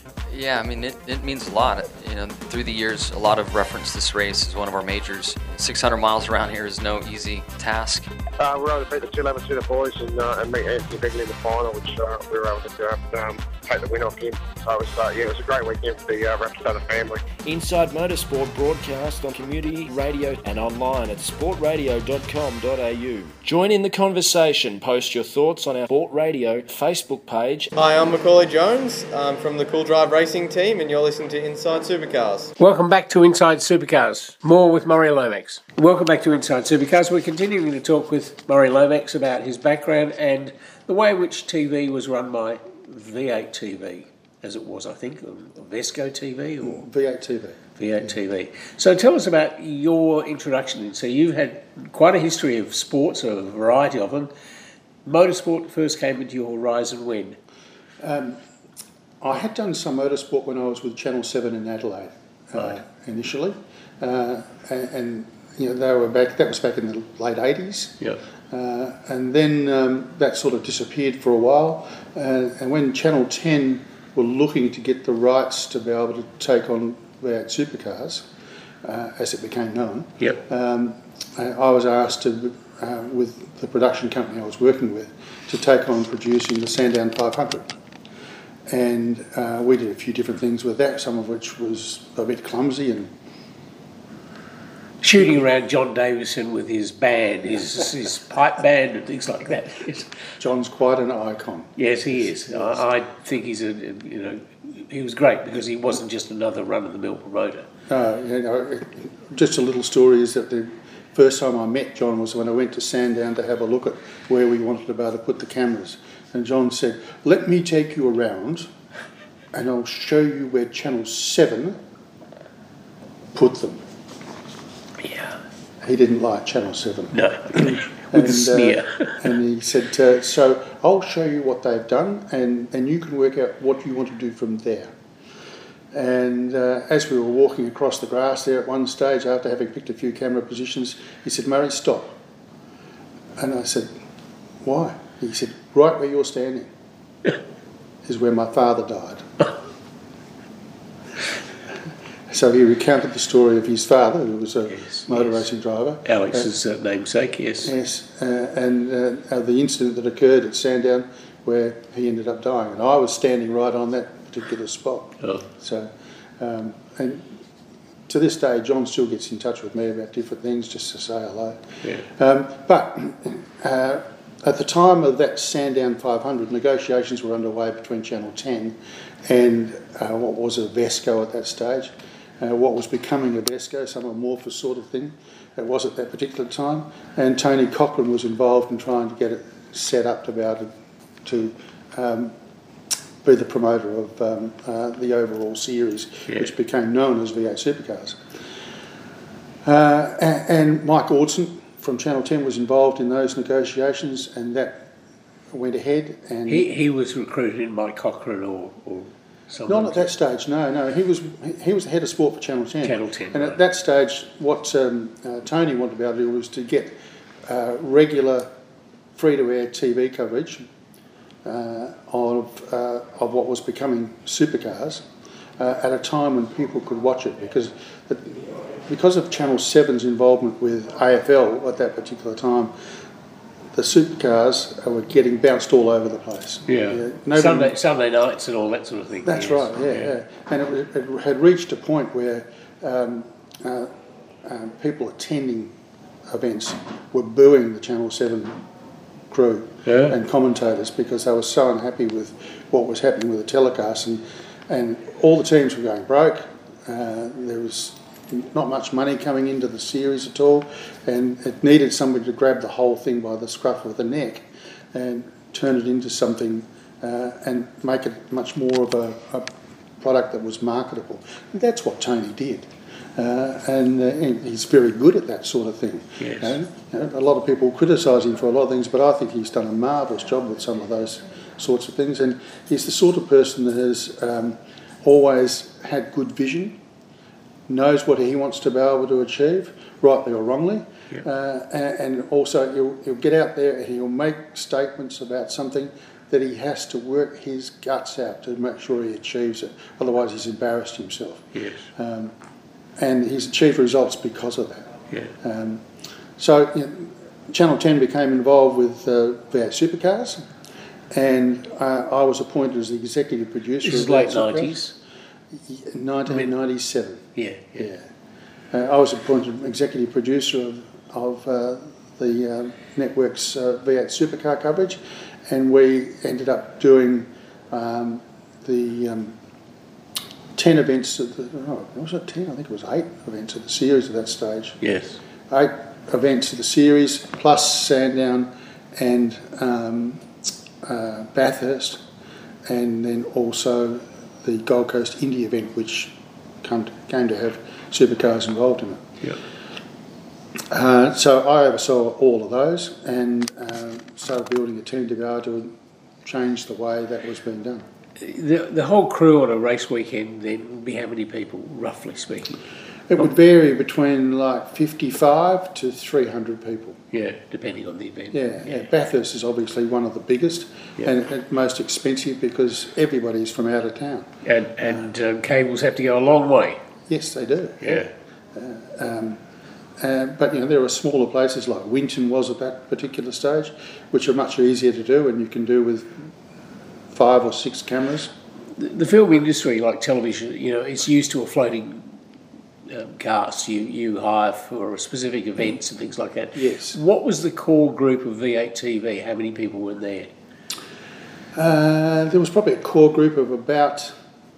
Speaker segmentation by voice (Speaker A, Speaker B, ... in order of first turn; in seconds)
Speaker A: 0.3-8.1
Speaker B: 8.4-17.3
Speaker C: 17.4-27.7
Speaker D: 27.8-32.5
Speaker E: 32.6-46.8, 47.8-54.3, 55.0-57.4, 95.0-100.1, 101.8-107.7, 125.0-125.4, 127.1-129.2, 154.7-155.3, 156.0-157.7, 206.5-210.1, 212.8-213.6, 236.7-240.1, 249.8-250.2, 276.2-276.6, 301.5-301.8, 313.8-314.9, 317.4-317.9, 334.8-335.2, 358.2-362.6, 367.1-368.8, 374.4-376.8, 377.8-378.1, 388.8-392.1, 392.9-400.3
Speaker F: 46.6-47.6, 58.0-58.4, 59.2-78.3, 78.8-87.7, 88.7-93.1, 100.4-102.8, 107.9-118.7, 119.5-121.8, 123.3-123.8, 125.8-134.9, 135.9-142.2, 143.4-143.9, 144.6-146.7, 148.0-149.3, 152.3-156.5, 157.6-167.3, 168.1-190.7, 191.2-192.3, 193.2-198.2, 199.6-204.9, 205.5-206.7, 209.7-218.5, 219.1-220.7, 221.4-225.1, 225.6-232.7, 233.7-237.7, 239.2-243.9, 244.4-245.7, 246.3-248.6, 249.3-286.8, 287.7-302.3, 303.0-304.9, 305.4-305.8, 306.4-310.5, 311.1-314.8, 315.5-318.1, 318.7-329.4, 330.6-334.8, 335.5-340.2, 340.8-342.0, 342.6-349.0, 350.7-357.9, 363.1-367.0, 368.3-374.3, 377.1-379.4, 380.0-386.3, 387.1-388.3, 396.5-397.0, 401.5-404.2